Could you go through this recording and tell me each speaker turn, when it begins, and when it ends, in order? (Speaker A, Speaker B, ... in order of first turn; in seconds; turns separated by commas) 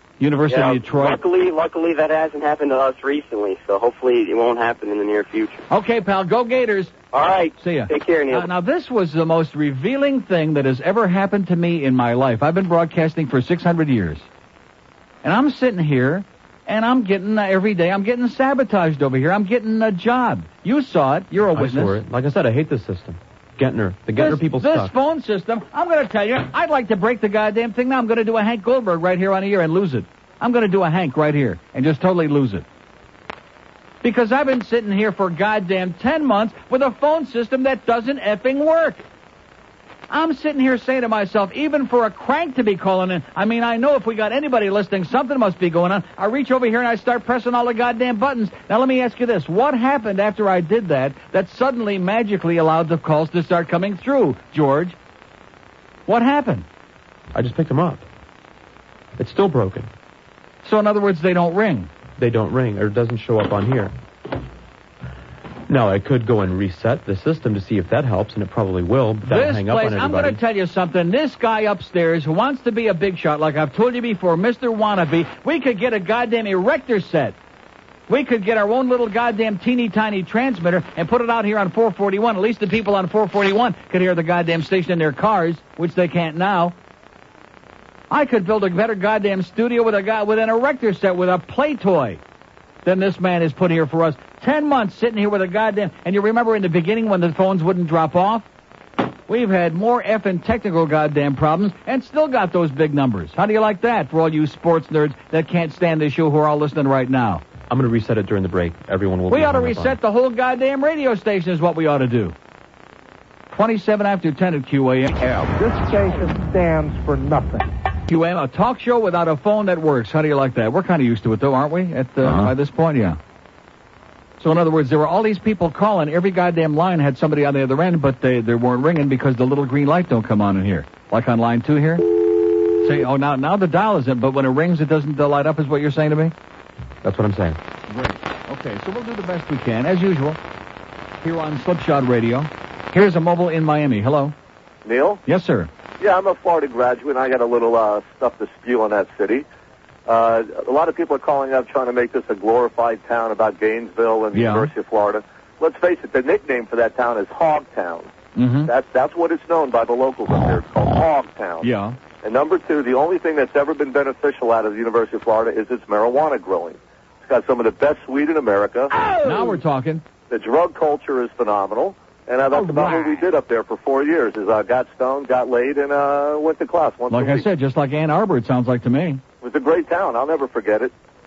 Speaker A: 0.2-1.2, Speaker B: 0.5-5.6, Speaker A: 5.7-6.9, Speaker B: 7.1-8.5, Speaker A: 7.6-14.3, Speaker A: 15.2-22.0, Speaker C: 21.5-24.9, Speaker A: 24.1-32.6, Speaker A: 34.0-39.0, Speaker A: 40.1-55.0, Speaker A: 56.1-56.6, Speaker C: 57.3-58.1, Speaker C: 59.2-59.9, Speaker A: 60.6-61.9, Speaker C: 62.2-63.9, Speaker C: 65.7-70.4, Speaker A: 69.2-77.3, Speaker A: 78.1-86.7, Speaker A: 88.1-92.2, Speaker A: 92.8-98.5, Speaker A: 99.3-107.4, Speaker C: 107.7-110.0, Speaker A: 109.3-112.3, Speaker A: 113.5-115.2, Speaker D: 115.4-117.6, Speaker A: 118.1-123.2, Speaker A: 124.4-136.3, Speaker C: 137.0-137.6, Speaker A: 137.9-140.4, Speaker A: 141.2-144.3, Speaker E: 144.8-145.2, Speaker A: 145.2-145.7, Speaker E: 146.0-149.4, Speaker E: 150.1-158.1, Speaker A: 154.3-154.7, Speaker A: 158.3-158.7, Speaker E: 158.7-161.7, Speaker A: 161.6-161.9, Speaker E: 162.2-168.9, Speaker A: 169.2-170.0, Speaker E: 170.3-177.4, Speaker A: 172.5-173.2, Speaker A: 177.1-179.2, Speaker E: 179.4-180.9